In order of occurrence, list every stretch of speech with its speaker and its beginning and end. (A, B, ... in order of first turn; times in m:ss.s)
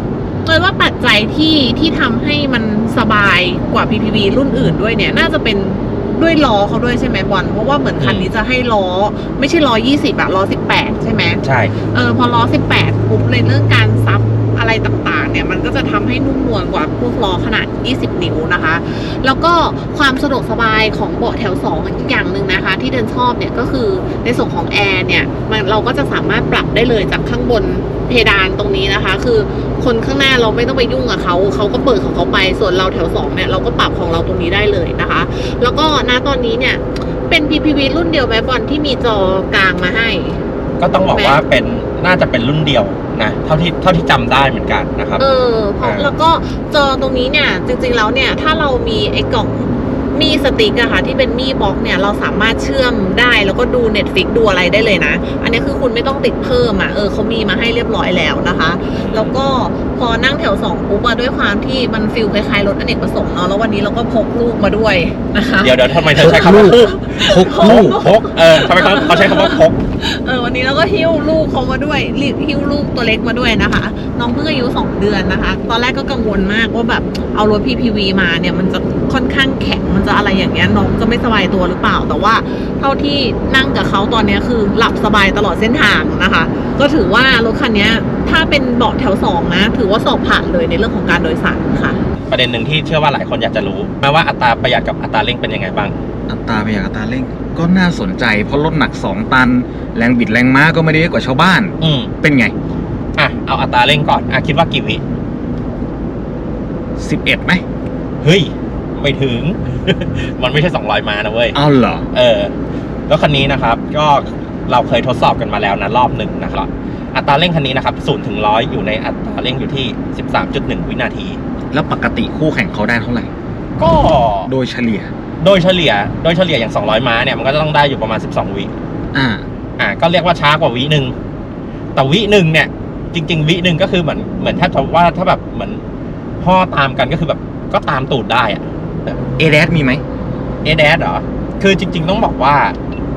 0:00.4-0:40.4 A
0:08.0-0:08.3 B
0:11.4-0:11.8 B
0:40.8-0:45.2 B
0:41.2-0:41.4 A
0:45.2-1:32.0 A
0:45.8-0:46.2 B
0:59.0-0:59.4 B
1:05.6-1:09.8 B
1:06.2-1:08.0 C
1:32.3-1:36.0 B
1:36.3-1:42.5 C
1:41.8-1:42.1 B
1:43.2-1:45.0 B
1:47.0-1:47.6 C
1:48.2-1:51.6 B
1:51.5-1:52.1 C
1:52.1-1:52.5 B
1:53.1-2:01.4 B
2:01.7-2:03.3 C
2:03.8-2:04.5 B
2:04.5-2:05.1 C
2:05.4-2:08.7 B
2:09.1-2:09.5 C
2:09.8-2:11.2 B
2:12.0-2:15.8 B
2:16.4-2:19.2 B
2:19.4-2:20.0 C
2:20.6-2:22.8 B